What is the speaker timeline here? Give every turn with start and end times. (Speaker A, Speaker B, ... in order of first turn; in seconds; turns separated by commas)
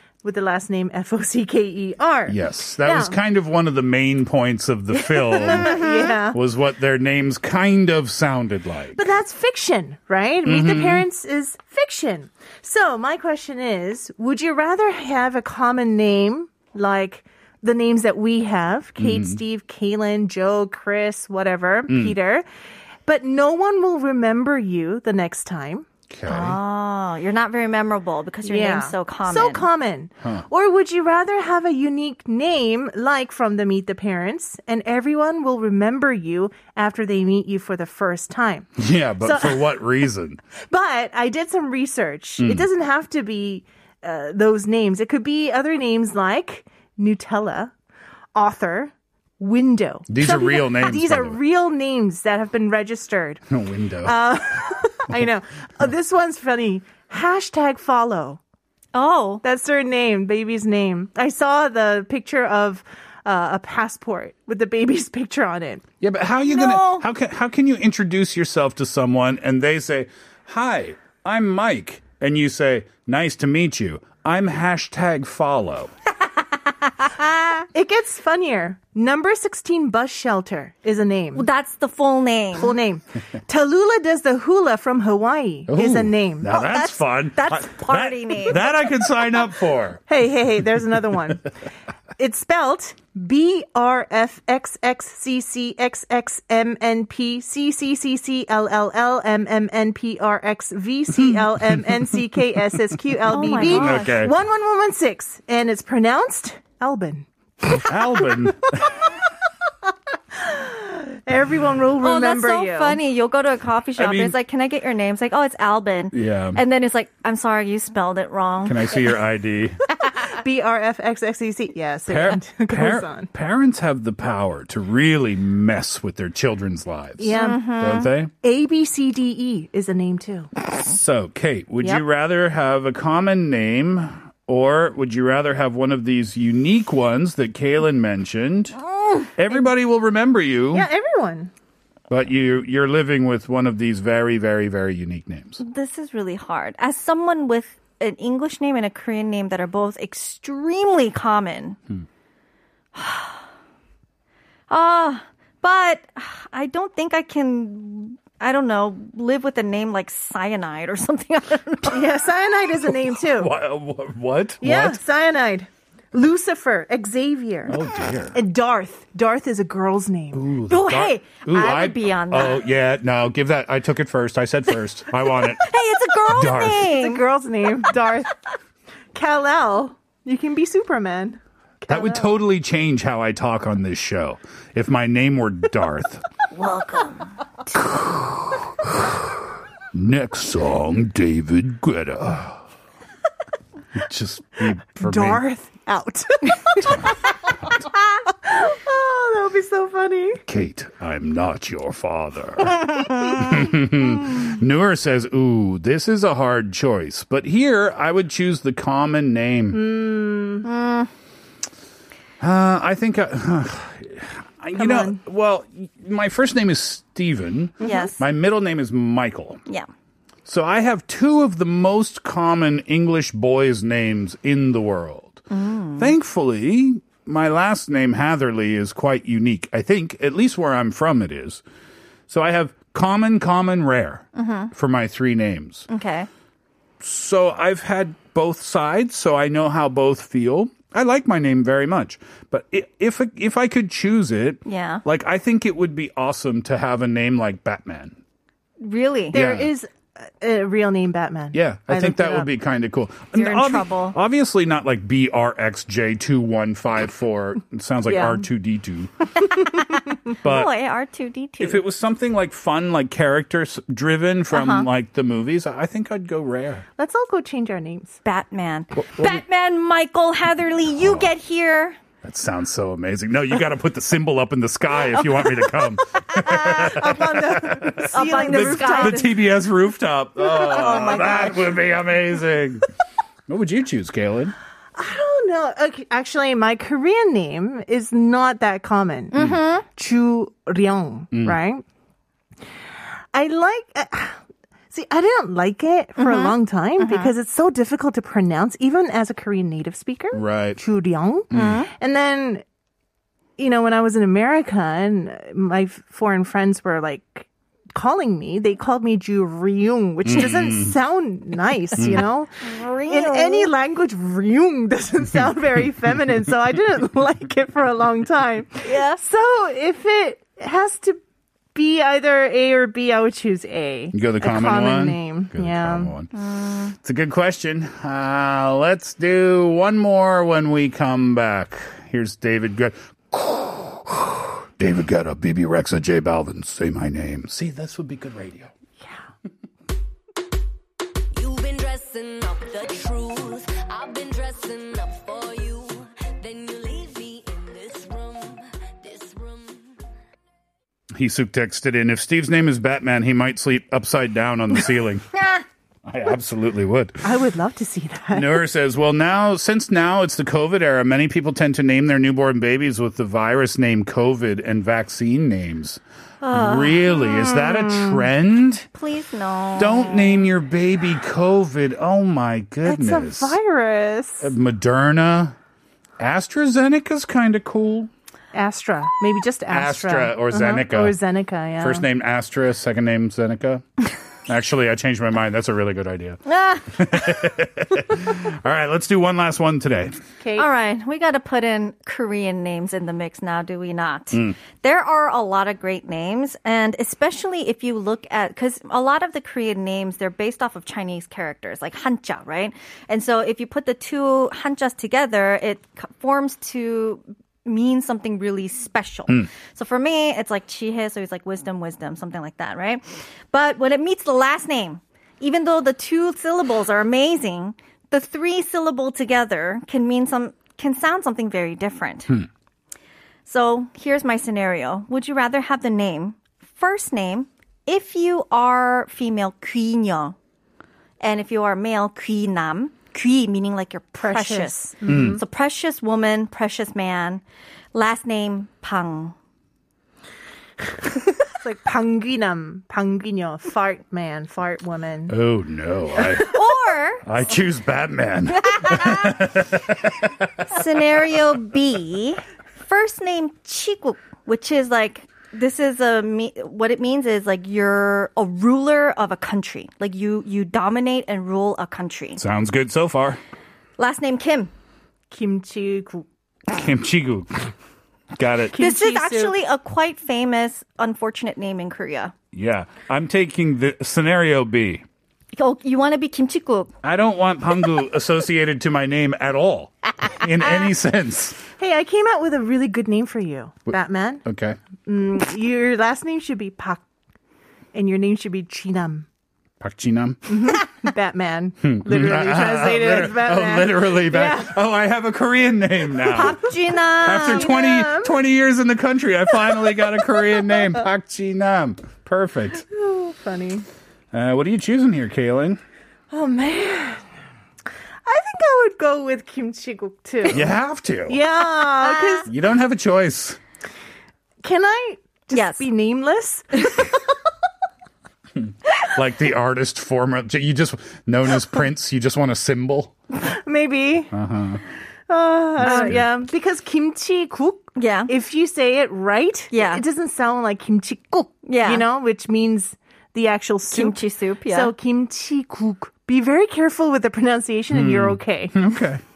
Speaker A: 0.2-3.1, Speaker B: 2.3-9.0, Speaker A: 5.1-6.4, Speaker C: 5.5-6.2, Speaker A: 8.9-22.4, Speaker B: 10.4-11.0, Speaker B: 19.0-19.4, Speaker B: 21.9-22.1, Speaker A: 23.0-25.9, Speaker B: 26.1-26.6, Speaker C: 26.2-29.7, Speaker A: 28.4-39.8, Speaker B: 38.8-40.4, Speaker A: 40.7-47.7, Speaker B: 42.4-42.7, Speaker A: 48.3-53.4, Speaker B: 50.1-51.4, Speaker B: 53.5-54.2, Speaker A: 54.0-58.4, Speaker C: 58.9-59.4, Speaker A: 59.4-65.8, Speaker B: 66.0-75.9, Speaker C: 66.5-67.0, Speaker C: 76.8-77.7, Speaker A: 77.7-81.5, Speaker C: 81.3-82.7, Speaker A: 82.5-86.5, Speaker B: 85.7-90.0, Speaker C: 86.5-88.6, Speaker A: 90.1-91.5, Speaker A: 92.2-108.5, Speaker C: 103.3-104.2, Speaker B: 103.5-104.3, Speaker B: 107.7-109.0, Speaker A: 110.3-113.0, Speaker C: 112.0-119.0, Speaker B: 114.0-114.3, Speaker B: 116.1-116.6, Speaker B: 118.6-119.8, Speaker A: 120.3-123.3, Speaker B: 122.1-128.3, Speaker A: 127.2-127.6, Speaker C: 127.3-128.1, Speaker A: 128.4-130.5, Speaker B: 130.8-138.8, Speaker B: 139.3-140.9, Speaker A: 140.7-141.5, Speaker B: 142.1-145.6, Speaker C: 145.6-151.8, Speaker C: 152.9-153.4, Speaker C: 154.7-162.1, Speaker A: 161.8-163.5, Speaker B: 163.2-165.0, Speaker A: 164.6-167.8, Speaker B: 167.7-168.4, Speaker A: 168.3-170.4, Speaker B: 170.3-175.7, Speaker C: 170.7-172.6, Speaker C: 175.5-177.2, Speaker B: 176.2-176.9, Speaker A: 176.8-178.3, Speaker A: 179.1-182.3, Speaker B: 181.9-186.2, Speaker C: 186.5-187.3, Speaker B: 187.7-192.6, Speaker B: 193.9-195.4, Speaker A: 195.0-197.3, Speaker A: 198.2-200.4, Speaker B: 200.5-209.8, Speaker A: 203.1-203.8, Speaker A: 209.7-210.7, Speaker C: 210.6-211.1, Speaker B: 212.4-219.6, Speaker A: 214.8-215.2, Speaker A: 217.8-218.1, Speaker C: 217.8-218.2, Speaker B: 220.4-225.4, Speaker C: 225.5-226.1, Speaker B: 226.0-231.6, Speaker B: 232.3-235.9, Speaker C: 234.3-234.7, Speaker C: 235.9-236.3, Speaker B: 237.0-248.2, Speaker C: 244.6-245.0, Speaker C: 248.8-249.4, Speaker B: 249.3-249.7, Speaker A: 249.3-252.5, Speaker B: 251.5-259.1, Speaker C: 253.3-254.2, Speaker A: 258.1-258.4, Speaker C: 259.4-261.8, Speaker A: 259.7-260.0, Speaker B: 260.4-260.7, Speaker B: 261.6-266.8, Speaker C: 264.5-264.9, Speaker A: 267.0-268.2, Speaker C: 268.2-272.0, Speaker B: 268.9-269.4, Speaker B: 270.9-271.3, Speaker B: 272.2-282.9, Speaker C: 275.4-276.9, Speaker A: 276.4-279.4, Speaker C: 278.1-279.3, Speaker A: 280.4-281.8, Speaker B: 283.5-284.5, Speaker A: 284.9-291.8, Speaker C: 289.3-289.9, Speaker B: 291.3-291.6, Speaker A: 293.3-294.4, Speaker A: 294.9-302.6, Speaker C: 296.2-297.3, Speaker B: 300.3-300.8, Speaker B: 301.5-301.8, Speaker C: 301.5-301.9, Speaker A: 303.6-321.2, Speaker B: 310.2-310.9, Speaker B: 312.0-312.2, Speaker C: 312.6-313.7, Speaker C: 318.8-319.2, Speaker A: 321.7-326.1, Speaker B: 324.1-326.3, Speaker C: 326.3-326.9, Speaker B: 326.9-338.7, Speaker D: 341.3-349.9, Speaker B: 351.1-355.3, Speaker B: 356.1-357.2, Speaker A: 357.2-358.6, Speaker B: 358.3-368.9, Speaker C: 366.4-367.6, Speaker C: 368.9-370.4, Speaker B: 369.8-373.6, Speaker A: 372.8-374.5, Speaker B: 374.4-375.6, Speaker B: 376.2-378.1, Speaker A: 378.5-382.0, Speaker B: 379.7-381.1, Speaker B: 381.8-383.8, Speaker B: 384.5-390.2, Speaker C: 386.5-387.1, Speaker A: 390.4-390.7, Speaker C: 390.6-422.4, Speaker C: 423.4-430.4, Speaker C: 431.2-437.4, Speaker A: 434.2-435.4, Speaker B: 435.1-435.4, Speaker C: 437.9-439.3, Speaker A: 441.5-445.4, Speaker B: 445.3-446.6, Speaker C: 446.4-447.2, Speaker B: 447.2-450.6, Speaker C: 448.7-449.3, Speaker C: 450.7-462.4, Speaker B: 462.4-463.4, Speaker C: 464.0-464.7, Speaker A: 465.3-466.2, Speaker B: 466.7-467.7, Speaker B: 468.3-468.8, Speaker A: 468.7-469.6, Speaker C: 468.8-472.3, Speaker B: 472.5-475.0, Speaker C: 475.5-476.9, Speaker B: 477.0-481.6, Speaker A: 481.8-484.4, Speaker B: 484.4-484.8, Speaker A: 485.0-487.0, Speaker A: 487.9-489.2, Speaker B: 489.8-490.7, Speaker A: 490.5-494.7, Speaker B: 491.8-502.8, Speaker C: 496.3-497.7, Speaker A: 497.2-498.3, Speaker A: 502.9-503.9, Speaker B: 504.3-505.8, Speaker A: 506.3-507.2, Speaker A: 508.2-510.7, Speaker B: 510.5-511.4, Speaker A: 511.3-512.5, Speaker C: 512.0-512.4, Speaker B: 512.5-513.6, Speaker A: 514.6-517.2, Speaker C: 515.5-515.9, Speaker B: 518.6-523.1, Speaker A: 523.4-524.3, Speaker B: 524.3-524.8, Speaker A: 525.3-538.7, Speaker B: 525.8-526.2, Speaker C: 525.8-526.2, Speaker C: 528.0-528.3, Speaker C: 529.7-530.0, Speaker C: 531.6-532.0, Speaker C: 533.9-534.9, Speaker B: 537.9-539.2